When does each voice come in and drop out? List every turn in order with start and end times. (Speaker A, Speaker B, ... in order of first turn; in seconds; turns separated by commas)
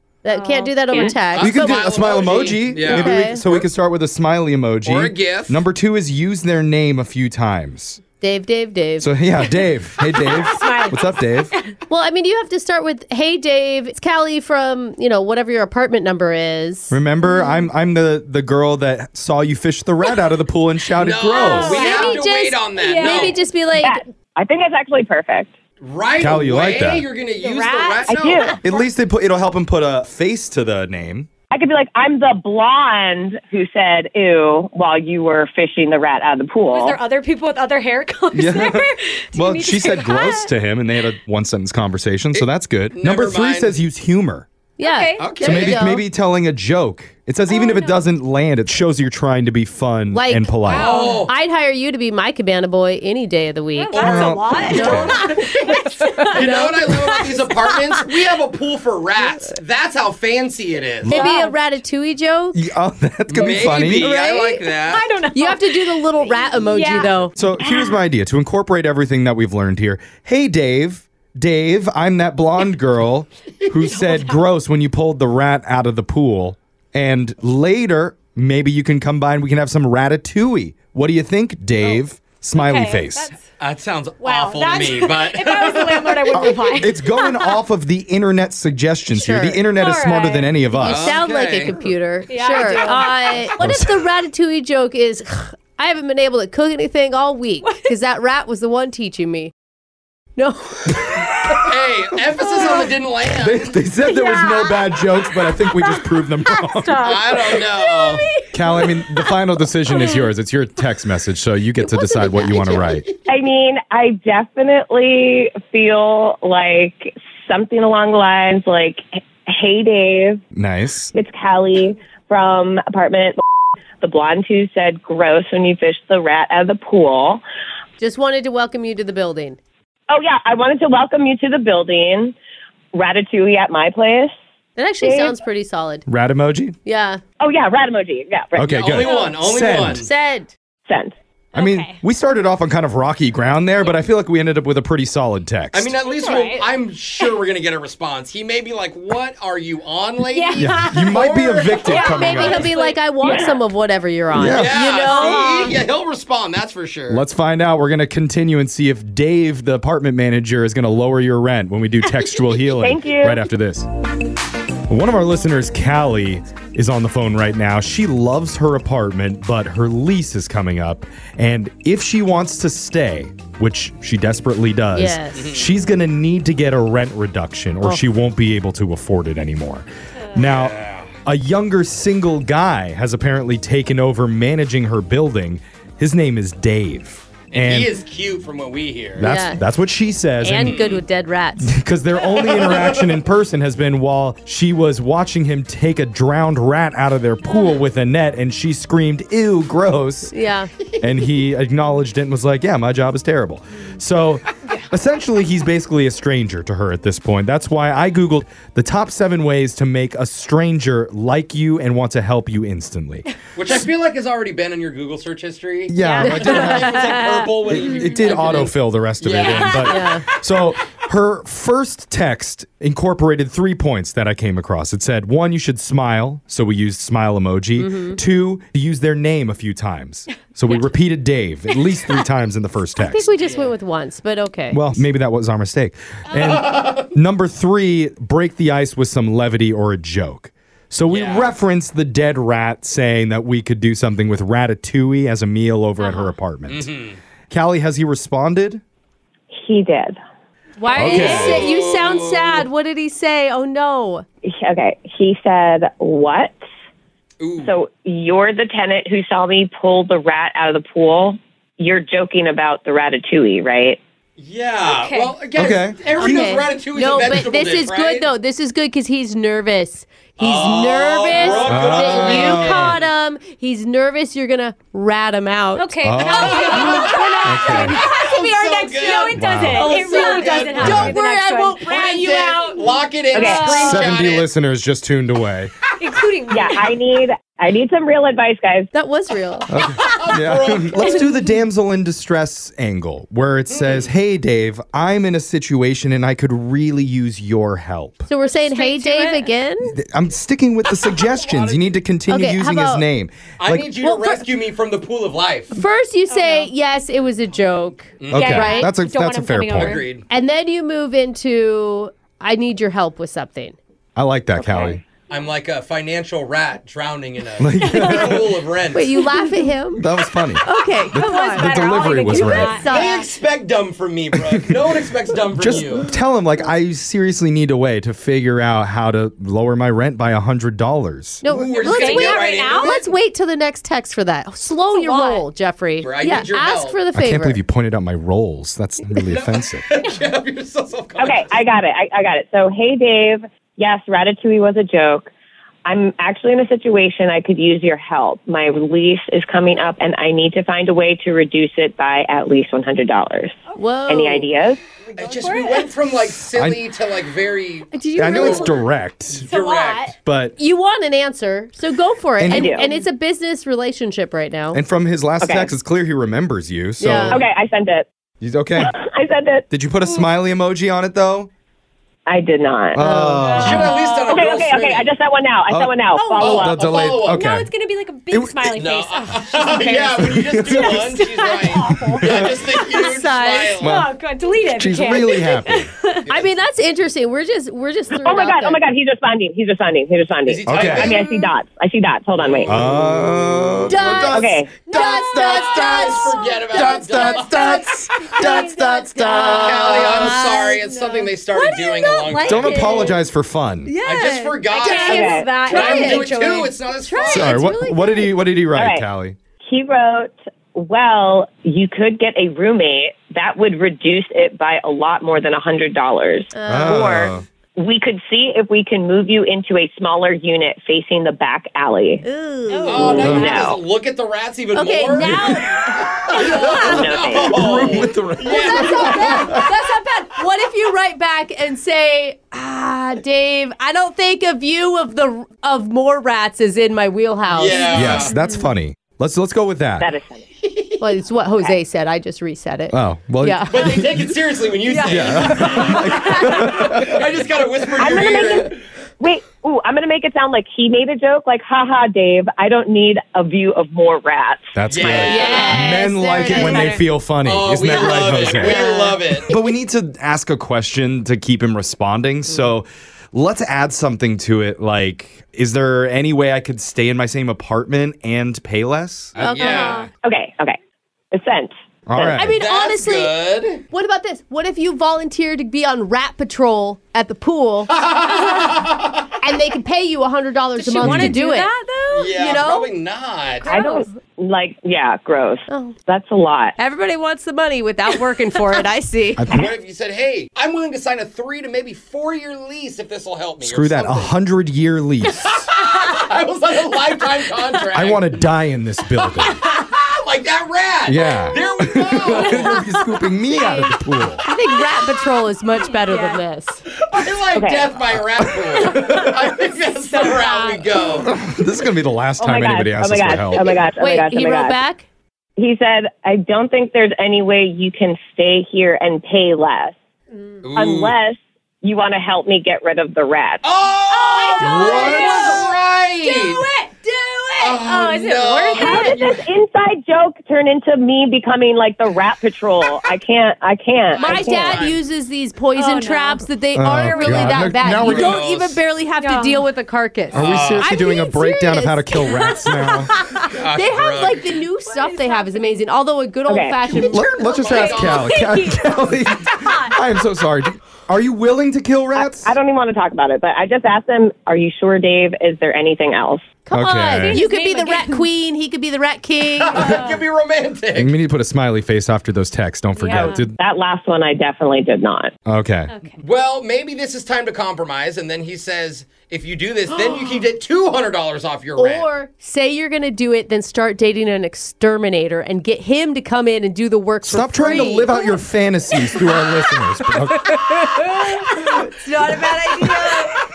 Speaker A: 0.2-1.8, Speaker B: 0.3-1.2, Speaker C: 1.2-3.7, Speaker D: 1.4-8.0, Speaker A: 2.8-3.4, Speaker C: 4.8-5.6, Speaker A: 8.2-9.2, Speaker D: 9.0-11.5, Speaker B: 10.1-11.7, Speaker A: 11.9-17.0, Speaker D: 16.9-21.8, Speaker C: 21.0-23.4, Speaker B: 21.4-22.1, Speaker A: 21.5-24.0, Speaker B: 22.8-23.3, Speaker E: 23.2-25.5, Speaker C: 25.8-28.9, Speaker D: 26.2-27.1, Speaker A: 27.4-28.0, Speaker B: 27.5-27.9, Speaker E: 28.1-28.6, Speaker D: 28.6-31.3, Speaker E: 31.5-37.0, Speaker B: 36.7-40.5, Speaker D: 38.3-44.5, Speaker C: 42.3-43.8, Speaker A: 44.8-46.0, Speaker B: 44.8-45.4, Speaker C: 45.2-45.8, Speaker D: 45.4-50.9, Speaker B: 47.5-48.0, Speaker A: 50.1-54.1, Speaker B: 50.7-51.3, Speaker C: 50.7-51.3, Speaker B: 53.8-56.5, Speaker C: 53.9-55.8, Speaker D: 54.0-55.2, Speaker A: 54.7-57.0, Speaker C: 56.3-61.2, Speaker D: 61.0-61.4, Speaker A: 61.1-62.6, Speaker B: 61.1-61.5, Speaker D: 62.5-64.1, Speaker C: 63.3-65.1, Speaker A: 63.6-64.7, Speaker B: 64.8-68.0, Speaker A: 65.3-67.3, Speaker D: 67.3-83.3, Speaker B: 73.8-74.4, Speaker B: 82.5-83.4, Speaker C: 83.6-86.6, Speaker B: 84.2-87.6, Speaker D: 86.3-91.2, Speaker A: 89.1-89.7, Speaker B: 89.8-90.5, Speaker A: 90.7-99.5, Speaker C: 90.8-91.8, Speaker B: 92.3-93.7, Speaker D: 93.6-94.1, Speaker A: 100.4-101.6, Speaker C: 101.6-103.7, Speaker A: 102.5-102.8, Speaker D: 103.4-107.4, Speaker B: 104.2-105.7, Speaker B: 106.5-108.9, Speaker C: 107.0-108.3, Speaker D: 108.5-113.0, Speaker B: 109.9-110.3, Speaker B: 111.8-113.0, Speaker E: 113.3-120.4, Speaker D: 120.5-121.1, Speaker E: 121.2-123.4, Speaker E: 124.0-127.4, Speaker A: 128.0-129.6, Speaker E: 130.1-132.4, Speaker E: 132.9-134.3, Speaker A: 134.8-136.1, Speaker E: 135.0-135.4, Speaker D: 136.1-136.8, Speaker A: 136.8-137.2, Speaker E: 137.4-138.9, Speaker D: 138.6-140.1, Speaker C: 138.7-140.1, Speaker A: 139.9-140.5, Speaker E: 140.9-141.1, Speaker B: 141.5-142.0, Speaker D: 141.6-145.9, Speaker C: 145.7-151.9, Speaker B: 146.1-146.7, Speaker B: 150.3-153.0, Speaker D: 150.6-152.7, Speaker A: 151.9-155.8, Speaker E: 153.2-153.6, Speaker D: 154.3-154.8, Speaker C: 154.4-157.2, Speaker B: 155.0-155.6, Speaker D: 157.1-163.9, Speaker E: 162.8-163.4, Speaker D: 164.9-187.9, Speaker A: 174.9-175.5, Speaker C: 175.3-175.7, Speaker C: 180.4-181.1, Speaker C: 187.5-189.3, Speaker D: 189.2-190.9, Speaker A: 189.2-189.6, Speaker A: 190.4-191.8, Speaker C: 190.6-191.0, Speaker D: 191.6-200.3, Speaker C: 192.3-193.2, Speaker A: 200.3-200.7, Speaker D: 201.0-213.3, Speaker C: 213.6-220.0, Speaker D: 215.9-217.2, Speaker B: 216.0-216.8, Speaker A: 216.2-217.5, Speaker D: 217.7-233.3, Speaker B: 219.5-220.0, Speaker A: 219.8-220.2, Speaker A: 227.8-228.2, Speaker A: 233.0-234.9, Speaker C: 233.4-233.7, Speaker D: 234.7-246.9, Speaker C: 236.4-237.0, Speaker C: 241.1-241.5, Speaker A: 246.0-246.4, Speaker C: 246.7-247.2, Speaker D: 247.5-248.8, Speaker E: 249.5-250.2, Speaker A: 250.8-254.2, Speaker C: 250.9-252.7, Speaker D: 250.9-251.7, Speaker E: 254.4-256.6, Speaker C: 257.4-257.8, Speaker E: 257.6-264.0, Speaker C: 264.4-268.3, Speaker B: 264.9-265.4, Speaker D: 265.6-266.5, Speaker A: 266.2-277.5, Speaker C: 270.4-273.1, Speaker D: 271.6-273.0, Speaker B: 275.8-282.9, Speaker D: 276.0-276.7, Speaker C: 276.3-281.1, Speaker D: 277.4-278.0, Speaker D: 279.3-279.9, Speaker A: 279.8-282.8, Speaker D: 280.8-281.2, Speaker C: 281.8-284.5, Speaker E: 283.3-283.8, Speaker B: 283.4-284.0, Speaker D: 283.7-285.7, Speaker B: 286.0-287.0, Speaker E: 286.5-288.9, Speaker A: 288.9-289.7, Speaker D: 289.7-298.2, Speaker C: 290.0-291.2, Speaker C: 293.7-294.1, Speaker A: 298.3-299.9, Speaker B: 298.4-299.5, Speaker D: 299.8-303.9, Speaker C: 301.0-302.0, Speaker A: 302.3-303.1, Speaker C: 303.6-305.8, Speaker A: 304.0-304.4, Speaker A: 305.7-308.9, Speaker B: 306.3-306.7, Speaker C: 308.2-308.7, Speaker D: 308.3-310.0, Speaker B: 308.3-310.1, Speaker C: 309.7-310.2, Speaker A: 310.3-313.8, Speaker D: 314.2-315.0, Speaker C: 315.3-319.2, Speaker D: 317.6-318.5, Speaker B: 317.8-318.3, Speaker A: 318.9-320.0, Speaker B: 319.4-319.7, Speaker D: 320.0-322.8, Speaker A: 320.6-323.3, Speaker B: 321.1-323.2, Speaker C: 322.9-326.1, Speaker D: 324.5-324.9, Speaker D: 325.6-331.4, Speaker A: 331.4-337.6, Speaker C: 331.4-333.0, Speaker B: 331.8-333.0, Speaker B: 334.9-335.5, Speaker C: 336.0-337.0, Speaker D: 337.1-339.9, Speaker C: 339.2-341.6, Speaker E: 341.2-345.3, Speaker E: 345.9-354.8, Speaker A: 353.8-354.5, Speaker C: 355.1-358.7, Speaker B: 355.2-355.9, Speaker D: 356.5-356.8, Speaker A: 357.9-358.8, Speaker D: 358.1-359.4, Speaker C: 359.3-360.1, Speaker A: 359.5-364.8, Speaker B: 359.7-359.9, Speaker D: 360.2-360.5, Speaker D: 362.4-362.8, Speaker E: 362.5-362.9, Speaker B: 362.8-363.0, Speaker D: 364.7-367.4, Speaker E: 365.4-365.7, Speaker A: 367.0-367.4, Speaker E: 367.1-368.1, Speaker D: 368.4-368.9, Speaker E: 368.8-369.6, Speaker D: 369.7-371.5, Speaker E: 372.3-373.1, Speaker D: 372.9-373.9, Speaker A: 373.0-373.9, Speaker B: 373.4-374.4, Speaker C: 373.6-375.1, Speaker E: 374.3-376.8, Speaker D: 375.7-377.7, Speaker B: 376.1-376.5, Speaker C: 376.4-377.4, Speaker B: 377.2-386.3, Speaker D: 378.3-378.8, Speaker C: 378.8-383.9, Speaker D: 380.2-381.2, Speaker D: 382.1-382.5, Speaker A: 382.9-383.8, Speaker D: 383.8-384.1, Speaker D: 384.7-385.9, Speaker A: 386.3-388.8, Speaker E: 388.2-392.9, Speaker C: 390.5-391.3, Speaker D: 390.7-391.2, Speaker C: 392.4-393.8, Speaker D: 392.7-400.2, Speaker A: 393.9-403.1, Speaker E: 394.3-394.7, Speaker B: 394.9-396.6, Speaker C: 395.4-397.6, Speaker B: 397.7-398.7, Speaker C: 399.4-403.1, Speaker B: 400.0-403.1, Speaker D: 402.5-403.9, Speaker A: 403.9-406.3, Speaker B: 403.9-406.8, Speaker C: 404.1-407.7, Speaker E: 404.9-405.6, Speaker A: 407.0-408.4, Speaker D: 407.3-409.4, Speaker E: 408.7-409.1, Speaker E: 409.6-422.2, Speaker A: 416.5-417.1, Speaker D: 416.7-417.4, Speaker A: 422.2-423.4, Speaker B: 422.7-423.6, Speaker C: 422.9-429.4, Speaker E: 422.9-423.8, Speaker D: 423.2-423.7, Speaker A: 424.7-427.2, Speaker D: 425.2-426.3, Speaker E: 426.4-428.0, Speaker D: 427.5-429.7, Speaker A: 428.4-438.3, Speaker C: 437.5-438.3, Speaker D: 437.9-440.1, Speaker E: 440.0-440.5, Speaker C: 440.6-441.0, Speaker A: 441.0-444.0, Speaker D: 442.9-444.3, Speaker C: 443.7-448.8, Speaker A: 444.9-445.8, Speaker D: 445.1-447.4, Speaker B: 445.8-446.7, Speaker E: 448.0-455.8, Speaker D: 454.8-458.8, Speaker C: 454.9-455.7, Speaker A: 455.2-457.0, Speaker B: 456.4-457.0, Speaker C: 457.4-459.5, Speaker A: 458.2-459.2, Speaker D: 459.4-469.4, Speaker C: 469.4-470.1, Speaker A: 469.4-470.1, Speaker E: 469.8-470.8, Speaker E: 471.3-472.4, Speaker D: 472.1-472.6, Speaker A: 472.2-473.3, Speaker C: 472.5-473.8, Speaker A: 473.9-477.9, Speaker C: 477.9-479.3, Speaker A: 479.4-481.7, Speaker B: 480.8-482.7, Speaker D: 481.0-481.4, Speaker C: 482.1-483.7, Speaker A: 482.4-482.9, Speaker A: 483.6-484.1, Speaker B: 483.6-484.1, Speaker E: 483.7-486.8, Speaker A: 485.7-486.0, Speaker A: 486.8-489.6, Speaker D: 489.4-489.7, Speaker C: 489.5-494.3, Speaker D: 493.6-495.5, Speaker C: 495.3-498.5, Speaker D: 497.9-499.6, Speaker C: 499.6-502.7, Speaker D: 501.1-504.4, Speaker B: 502.3-504.0, Speaker A: 504.4-506.8, Speaker B: 505.9-506.4, Speaker C: 506.9-511.3, Speaker E: 507.5-507.9, Speaker D: 508.8-509.3, Speaker B: 510.1-511.2, Speaker D: 511.2-513.9, Speaker E: 512.4-514.8, Speaker A: 514.0-515.0, Speaker E: 515.6-520.0, Speaker C: 520.6-521.2, Speaker E: 520.7-523.6, Speaker C: 523.6-526.6, Speaker B: 524.1-525.7, Speaker A: 524.6-525.5, Speaker D: 524.6-525.2, Speaker B: 526.2-529.3, Speaker C: 527.6-529.4, Speaker E: 528.7-534.9, Speaker C: 534.1-535.0, Speaker A: 534.2-547.9, Speaker B: 535.7-537.7, Speaker D: 536.7-538.4, Speaker C: 537.9-538.8, Speaker B: 539.2-539.7, Speaker D: 540.3-543.1, Speaker C: 540.3-540.9, Speaker C: 543.5-544.6, Speaker B: 544.8-545.8, Speaker E: 546.5-546.8, Speaker C: 546.8-548.4, Speaker D: 546.9-552.5, Speaker B: 547.7-550.0, Speaker E: 552.1-556.5, Speaker A: 556.7-560.0, Speaker D: 556.7-557.4, Speaker B: 557.2-558.3, Speaker C: 559.5-561.1, Speaker B: 559.8-560.2, Speaker D: 561.0-563.6, Speaker B: 563.0-563.5, Speaker E: 563.1-565.3, Speaker D: 565.5-565.9, Speaker B: 565.9-566.2, Speaker C: 566.2-572.1, Speaker A: 571.8-578.4, Speaker D: 577.2-580.8, Speaker B: 577.9-578.1, Speaker A: 580.7-583.3